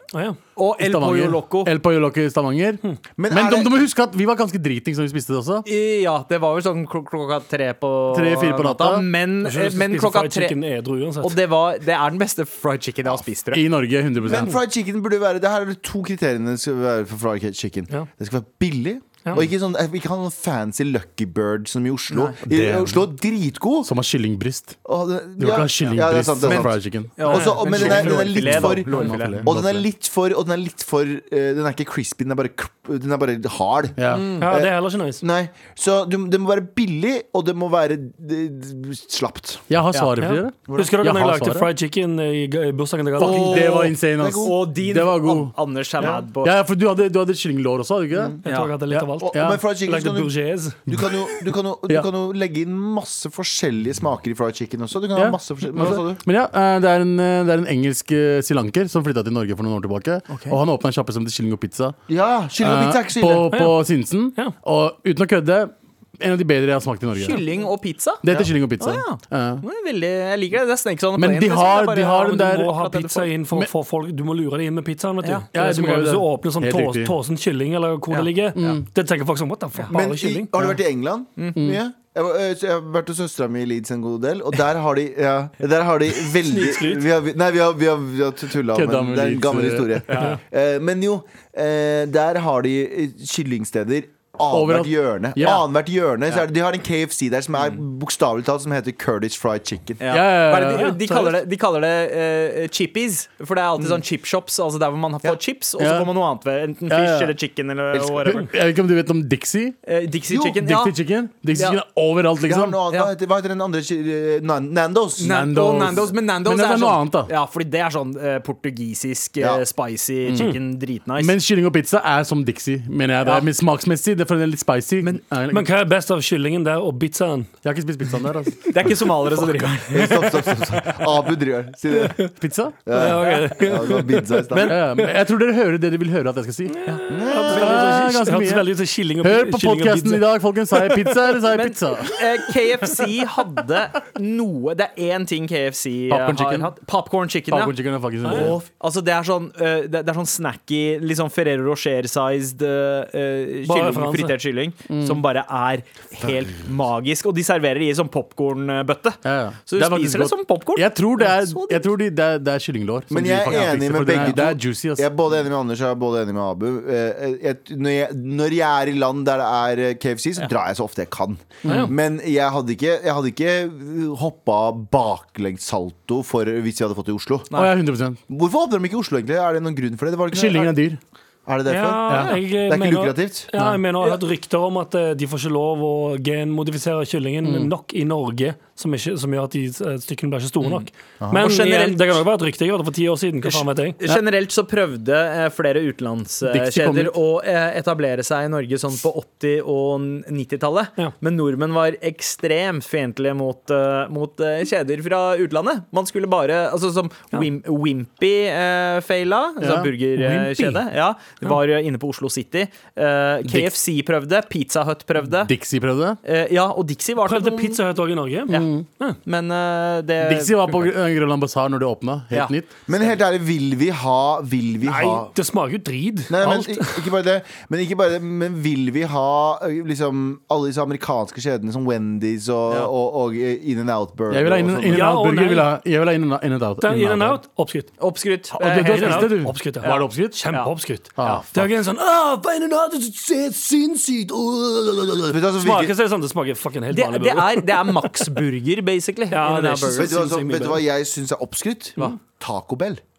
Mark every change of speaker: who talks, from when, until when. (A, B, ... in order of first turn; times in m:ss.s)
0:00.1-0:00.4 A
0:00.6-0:01.7 B
0:00.8-0:05.7 C
0:03.2-0:03.8 D
0:05.6-0:10.6 B
0:08.1-0:09.1 C
0:09.4-0:11.4 A
0:11.2-0:13.6 B
0:13.5-0:14.6 C
0:14.2-0:23.9 D
0:22.1-0:22.4 B
0:22.5-0:23.0 C
0:23.8-0:24.8 C
0:24.8-0:39.6 D
0:25.4-0:29.9 C
0:26.4-0:29.4 B
0:27.4-0:28.3 A
0:34.0-0:34.4 C
0:34.1-0:34.5 B
0:34.4-0:35.2 A
0:39.7-0:41.7 C
0:40.2-0:43.6 A
0:40.7-0:40.9 D
0:43.2-0:48.4 C
0:43.2-0:46.5 B
0:44.2-0:44.6 D
0:48.4-0:48.7 B
0:48.4-0:50.8 A
0:48.9-0:50.4 D
0:49.3-0:49.6 C
0:50.9-0:51.2 C
0:50.9-0:56.2 D
0:55.2-1:02.0 C
1:00.3-1:00.6 B
1:02.1-1:03.5 D
1:02.6-1:07.4 C
1:03.5-1:03.8 A
1:07.2-1:08.2 B
1:08.2-1:09.6 C
1:08.8-1:13.3 B
1:11.2-1:12.8 C
1:12.3-1:20.5 A
1:15.5-1:17.1 C
1:18.6-1:18.9 C
1:19.9-1:40.0 D
1:26.4-1:27.1 A
1:28.7-1:30.0 C
1:30.1-1:30.4 B
1:34.5-1:35.6 C
1:40.0-1:48.5 B
1:40.1-1:41.4 C
1:45.8-1:46.1 C
1:46.9-1:47.4 C
1:47.9-1:48.4 D
1:48.3-1:49.8 C
1:49.9-1:51.0 B
1:50.3-1:50.6 D
1:50.6-1:52.8 C
1:51.5-1:51.8 B
1:52.4-1:56.0 D
1:55.2-2:01.3 B
1:55.2-1:57.3 C
1:59.4-1:59.6 D
2:00.3-2:00.6 C
2:01.2-2:05.7 C
2:05.5-2:07.6 A
2:07.6-2:08.7 C
2:08.7-2:10.4 B
2:09.9-2:12.3 D
2:12.4-2:12.8 C
2:12.9-2:14.8 D
2:12.9-2:15.1 A
2:14.6-2:16.8 C
2:16.7-2:20.2 A
2:17.1-2:18.0 D
2:17.5-2:23.0 C
2:21.5-2:41.9 B
2:26.1-2:26.7 C
2:27.5-2:28.6 C
2:28.2-2:28.6 A
2:33.7-2:34.4 A
2:34.9-2:35.2 C
2:36.2-2:36.5 D
2:39.2-2:45.1 C
2:43.1-2:57.5 D
2:51.6-2:51.9 C
2:51.7-2:51.9 A
2:57.5-2:57.8 B
2:57.5-2:58.2 C
2:58.3-3:00.8 D
3:00.3-3:01.0 C
3:01.5-3:03.5 D
3:01.7-3:14.0 A
3:03.6-3:03.8 C
3:07.4-3:07.7 C
3:10.6-3:12.2 B
3:13.4-3:35.5 B
3:16.5-3:17.2 C
3:29.6-3:29.9 C
3:30.2-3:30.8 A
3:35.4-3:36.2 C
3:36.2-3:37.8 B
3:37.2-3:39.2 A
3:38.5-3:38.9 C
3:39.2-3:40.9 B
3:40.2-3:42.7 C
3:42.3-3:43.1 B
3:42.9-3:45.3 D
3:44.8-3:47.1 A
3:46.3-3:55.1 D
3:54.3-3:57.4 C
3:54.9-3:55.7 A
3:56.8-3:57.9 A
3:58.0-4:01.4 B
3:58.6-4:00.6 C
3:58.7-4:08.4 A
4:01.2-4:01.6 C
4:05.3-4:06.0 D
4:06.9-4:10.1 B
4:09.3-4:10.8 A
4:09.9-4:13.0 D